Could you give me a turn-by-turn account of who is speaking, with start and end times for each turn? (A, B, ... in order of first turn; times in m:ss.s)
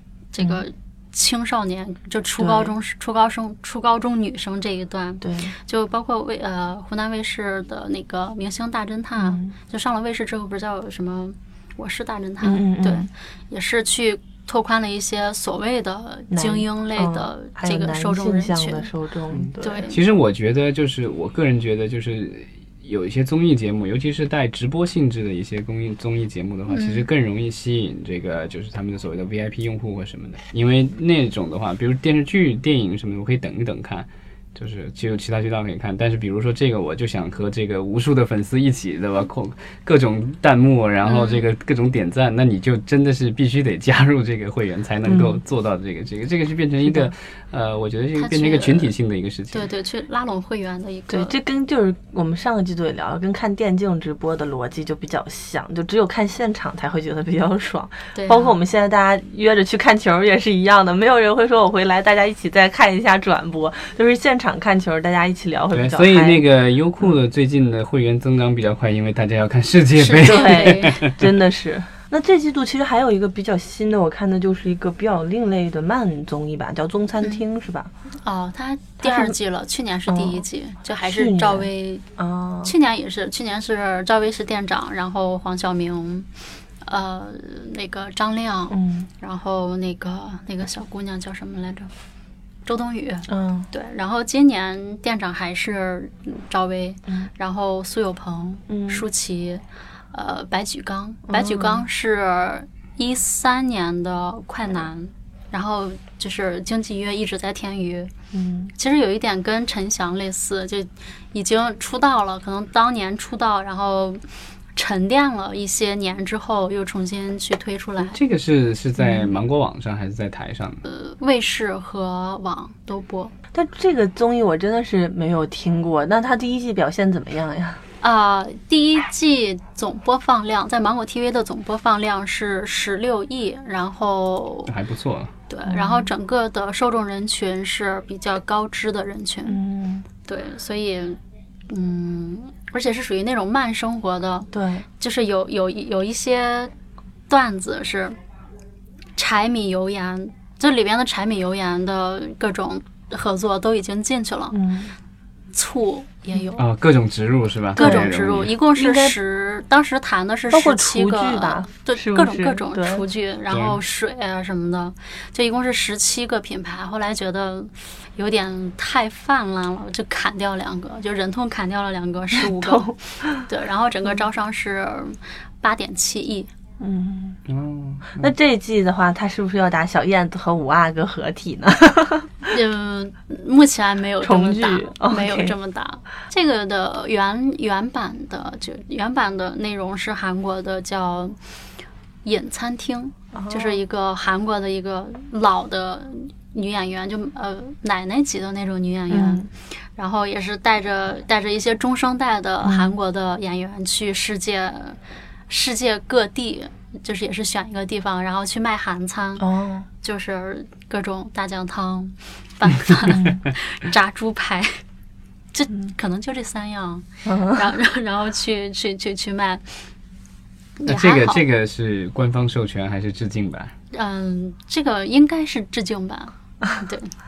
0:00.3-0:18.9 A
0:02.4-0:02.7 B
0:05.2-0:05.5 B
0:09.2-0:09.5 B
0:12.4-0:13.1 B
0:16.3-0:19.9 B
0:19.3-0:49.7 C
0:19.6-0:20.0 A
0:26.7-0:27.1 A
0:41.0-0:41.5 A
0:45.0-0:45.4 B
0:46.8-0:47.1 B
0:48.2-0:48.9 A
0:49.5-0:51.3 A
0:51.1-1:06.4 B
0:58.1-0:58.5 A
1:05.7-1:11.1 C
1:10.0-1:11.0 A
1:10.3-1:17.9 B
1:18.2-1:22.0 A
1:19.0-1:19.3 B
1:20.1-1:20.4 B
1:21.0-1:22.7 B
1:22.6-1:26.3 A
1:26.8-1:31.9 A
1:28.7-1:29.1 B
1:32.6-1:48.1 A
1:33.3-1:33.7 B
1:38.7-1:39.0 B
1:41.3-1:41.9 B
1:48.3-1:48.7 B
1:48.8-1:54.2 A
1:54.8-1:58.2 A
1:58.0-2:00.8 C
1:59.0-1:59.3 B
2:00.8-2:03.3 A
2:03.5-2:07.8 B
2:08.0-2:14.7 A
2:14.6-2:15.3 C
2:15.5-2:19.6 A
2:15.6-2:16.1 B
2:19.4-2:20.1 B
2:20.2-2:21.2 A
2:21.7-2:26.7 A
2:24.5-2:24.9 B
2:27.3-2:28.2 A
2:29.2-2:34.6 A
2:34.5-2:34.9 B
2:35.5-2:36.6 A
2:36.6-2:38.5 C
2:37.7-2:56.5 A
2:37.8-2:38.1 B
2:38.7-2:39.2 B
2:40.5-2:43.0 B
2:43.5-2:43.8 C
2:52.3-2:53.5 B
2:56.8-2:57.4 B
2:57.5-2:58.3 C
2:58.1-3:02.3 B
3:02.4-3:11.4 A
3:04.2-3:05.5 B
3:12.2-3:19.4 A
3:13.3-3:13.8 B
3:19.1-3:19.5 B
3:20.0-3:25.0 A
3:22.6-3:23.0 B
3:25.5-3:29.5 A
3:29.4-3:29.9 B
3:30.0-3:34.8 A
3:33.1-3:33.4 B
3:35.5-3:39.7 A
3:37.2-3:37.7 B
3:40.8-3:41.4 A
3:40.8-3:43.7 C
3:43.9-3:47.1 A